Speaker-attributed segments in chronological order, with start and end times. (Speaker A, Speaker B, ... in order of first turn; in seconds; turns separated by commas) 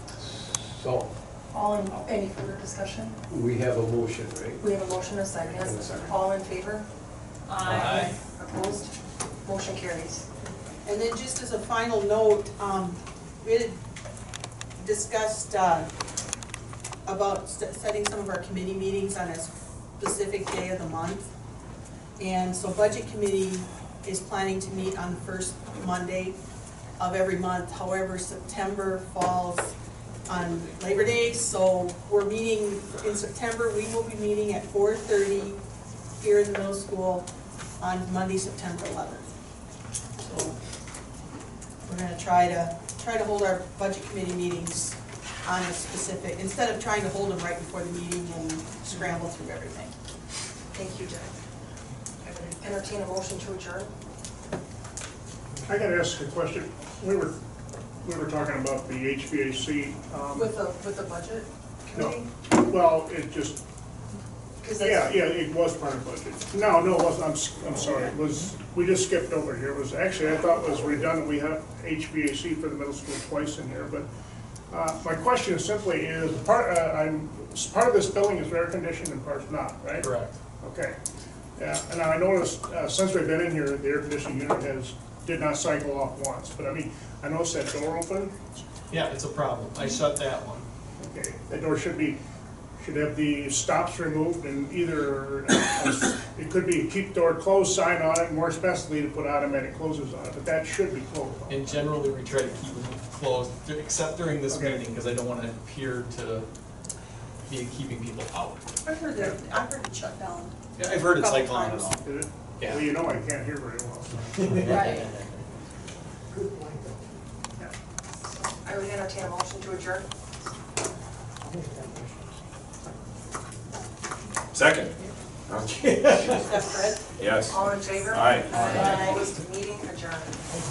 Speaker A: 0.2-1.1, Speaker B: 1.5-3.2, Speaker A: 3.3-4.7, Speaker B: 4.6-6.8, Speaker A: 5.5-6.2, Speaker C: 7.5-8.1, Speaker D: 7.6-8.1, Speaker B: 8.0-10.3, Speaker C: 10.8-13.8, Speaker C: 14.8-15.9, Speaker C: 17.1-21.3, Speaker C: 22.2-26.4, Speaker C: 27.0-29.7, Speaker C: 30.3-35.6, Speaker C: 36.2-37.3, Speaker C: 37.8-39.3, Speaker C: 40.2-40.5, Speaker C: 41.9-49.9, Speaker B: 50.7-51.3, Speaker B: 52.2-53.9, Speaker E: 55.7-57.4, Speaker E: 58.0-60.5, Speaker B: 60.3-62.3, Speaker E: 61.9-63.6, Speaker B: 64.6-65.2, Speaker E: 64.8-74.0, Speaker E: 74.7-81.0, Speaker D: 80.0-80.4, Speaker E: 81.6-88.4, Speaker D: 88.9-90.7, Speaker E: 91.0-92.2, Speaker E: 92.8-101.9, Speaker D: 101.5-106.5, Speaker E: 104.5-104.8, Speaker D: 107.5-108.6, Speaker C: 108.8-112.0, Speaker D: 110.8-112.0, Speaker E: 111.9-114.2, Speaker D: 112.6-112.9, Speaker D: 114.4-115.2, Speaker C: 114.6-115.0, Speaker B: 118.4-120.0, Speaker F: 124.5-124.9, Speaker F: 125.5-126.3, Speaker D: 125.8-126.6, Speaker C: 126.4-127.0, Speaker F: 127.2-128.7, Speaker B: 127.5-130.4, Speaker D: 128.5-129.2, Speaker C: 128.5-129.2